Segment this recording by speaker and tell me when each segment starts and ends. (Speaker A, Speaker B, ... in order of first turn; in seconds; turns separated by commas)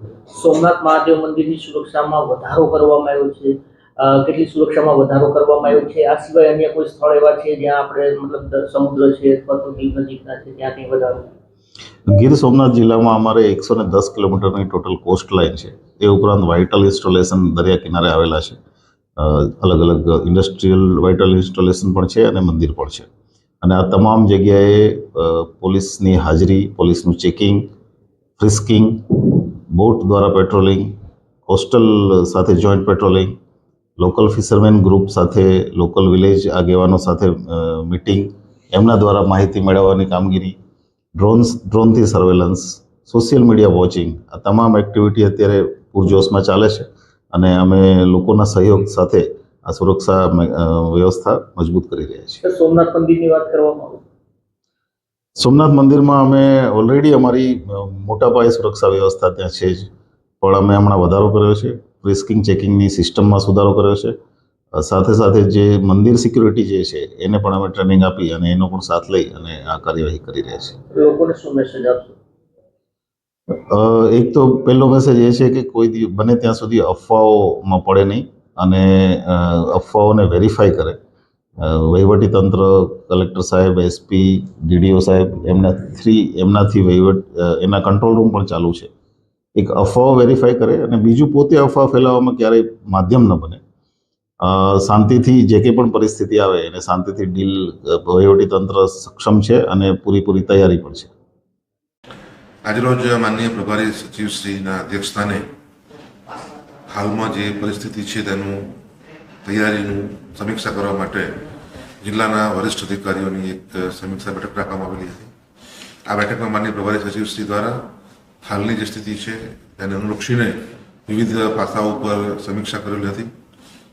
Speaker A: 0.3-11.3, Speaker B: 12.1-18.6, Speaker B: 19.2-23.1, Speaker B: 23.6-27.7, Speaker B: 28.4-30.9, Speaker B: 31.5-33.4, Speaker B: 34.0-40.5, Speaker B: 41.2-52.4, Speaker A: 52.4-54.0, Speaker B: 55.4-59.9, Speaker B: 60.4-64.1, Speaker B: 64.8-70.7, Speaker A: 70.9-72.2, Speaker B: 73.7-81.0, Speaker B: 81.6-88.9, Speaker B: 89.5-93.6, Speaker B: 94.4-101.1, Speaker C: 102.6-105.5, Speaker C: 106.9-108.7, Speaker C: 109.4-111.4, Speaker C: 112.0-115.3, Speaker C: 116.1-117.8, Speaker C: 118.4-120.5, Speaker C: 121.1-123.3